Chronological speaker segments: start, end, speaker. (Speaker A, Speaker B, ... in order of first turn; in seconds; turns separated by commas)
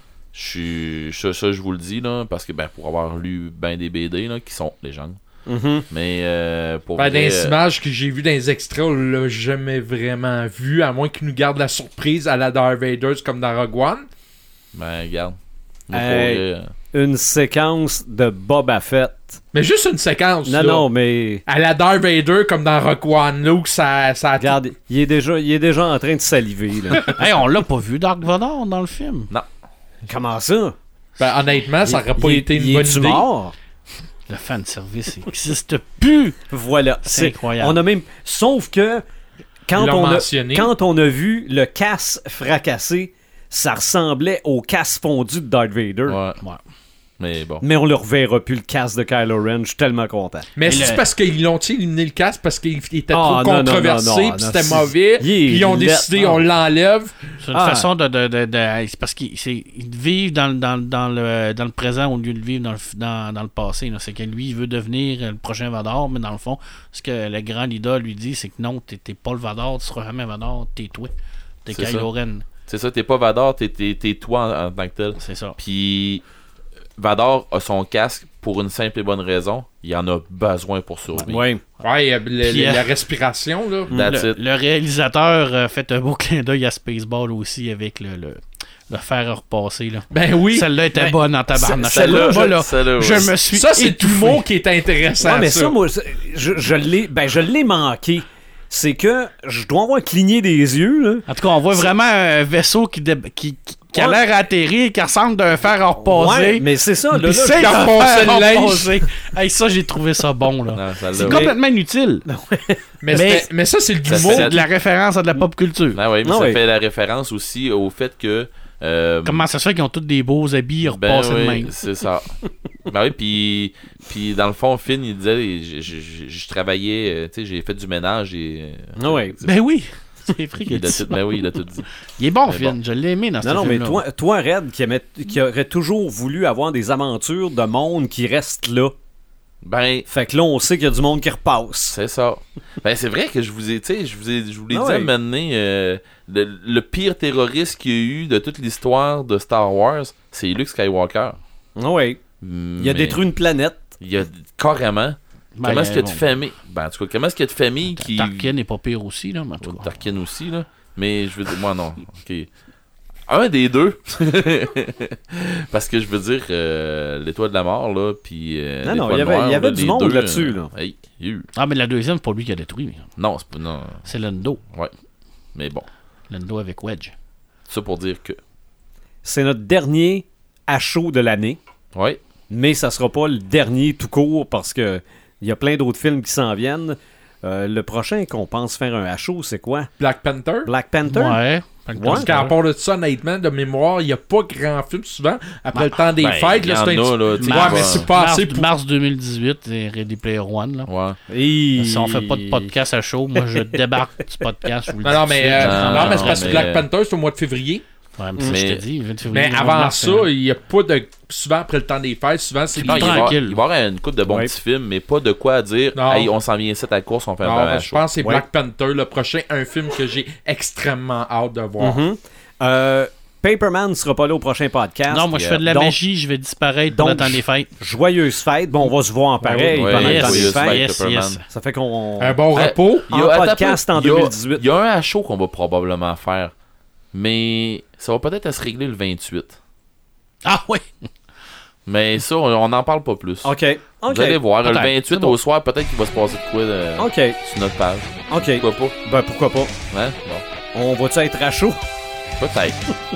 Speaker A: 0.3-5.2, Speaker B: 5.5-5.9, Speaker A: 5.9-7.6, Speaker C: 7.0-14.1, Speaker A: 14.7-15.4, Speaker A: 15.9-16.7, Speaker B: 15.9-19.4, Speaker C: 19.5-20.9, Speaker B: 20.5-21.4, Speaker C: 21.5-24.6, Speaker B: 24.4-27.1, Speaker D: 27.1-29.3, Speaker B: 30.1-30.8, Speaker C: 31.2-33.3, Speaker B: 31.8-33.5, Speaker D: 34.3-36.4, Speaker B: 36.5-39.0, Speaker D: 37.0-37.8, Speaker B: 39.7-46.2, Speaker C: 39.8-40.7, Speaker A: 46.1-46.4, Speaker A: 47.2-47.6, Speaker B: 47.6-50.5, Speaker C: 50.6-57.2, Speaker D: 50.6-51.0, Speaker B: 53.1-56.4, Speaker D: 57.4-71.1, Speaker B: 57.5-57.9, Speaker D: 71.7-72.5, Speaker A: 71.7-72.1, Speaker A: 72.7-76.2, Speaker D: 75.2-75.6, Speaker A: 77.0-81.4, Speaker B: 81.3-81.6, Speaker C: 81.8-83.9, Speaker D: 82.4-82.9, Speaker B: 83.9-84.1, Speaker A: 83.9-84.4, Speaker D: 84.0-94.4, Speaker C: 90.1-90.7, Speaker A: 91.5-93.3, Speaker B: 92.0-92.2, Speaker C: 93.5-95.8, Speaker B: 95.2-101.3, Speaker D: 101.3-106.7, Speaker B: 103.9-104.2, Speaker B: 106.0-107.8, Speaker D: 107.2-112.3, Speaker C: 107.5-109.2, Speaker A: 110.7-111.5, Speaker B: 111.2-111.6, Speaker B: 112.3-112.8, Speaker C: 113.0-114.6, Speaker D: 113.1-113.5, Speaker A: 114.1-114.6, Speaker D: 114.1-116.0, Speaker A: 115.9-119.5, Speaker B: 116.2-116.6, Speaker D: 119.2-121.7, Speaker A: 120.8-129.6, Speaker B: 129.0-129.4, Speaker D: 129.4-131.4, Speaker A: 130.7-131.9, Speaker D: 132.2-134.0, Speaker A: 132.4-132.8, Speaker B: 133.4-138.9, Speaker A: 139.6-140.1, Speaker B: 140.1-142.0, Speaker A: 141.9-151.4, Speaker B: 144.7-145.1, Speaker B: 151.8-152.2, Speaker A: 152.4-153.2, Speaker B: 152.8-153.8, Speaker A: 154.0-158.5, Speaker D: 155.6-156.2, Speaker D: 157.9-159.9, Speaker A: 159.6-162.5, Speaker A: 163.3-171.5, Speaker B: 168.8-170.7, Speaker D: 171.6-173.1, Speaker A: 173.2-174.1, Speaker D: 174.1-174.6, Speaker A: 175.5-175.9, Speaker D: 176.3-177.1, Speaker A: 177.7-178.4, Speaker B: 179.2-181.6, Speaker A: 181.9-182.2, Speaker B: 182.5-189.9, Speaker C: 190.0-190.7, Speaker B: 190.7-191.4, Speaker D: 191.1-192.6, Speaker B: 191.9-192.5, Speaker C: 192.1-198.7, Speaker D: 195.7-196.1, Speaker A: 196.2-198.1, Speaker D: 197.4-200.9, Speaker A: 200.9-201.2, Speaker B: 201.3-202.7, Speaker D: 201.8-206.7, Speaker C: 205.0-207.8, Speaker A: 205.6-206.9, Speaker D: 208.2-210.3, Speaker A: 208.4-208.8, Speaker C: 209.3-213.4, Speaker D: 212.7-213.6, Speaker A: 212.8-218.0, Speaker C: 215.9-216.3, Speaker C: 217.4-222.0, Speaker B: 221.8-226.0, Speaker D: 225.1-227.7, Speaker B: 226.9-230.8, Speaker D: 229.6-231.4, Speaker A: 229.7-231.4, Speaker B: 231.5-232.4, Speaker C: 232.2-233.1, Speaker A: 232.5-236.5, Speaker B: 233.1-234.6, Speaker A: 237.1-239.6, Speaker D: 240.4-241.1, Speaker A: 241.9-243.5, Speaker B: 243.4-244.4, Speaker A: 244.1-248.9, Speaker D: 244.6-245.3, Speaker B: 247.0-247.4, Speaker B: 248.3-249.7, Speaker A: 249.9-250.5, Speaker B: 250.7-251.8, Speaker A: 252.4-252.8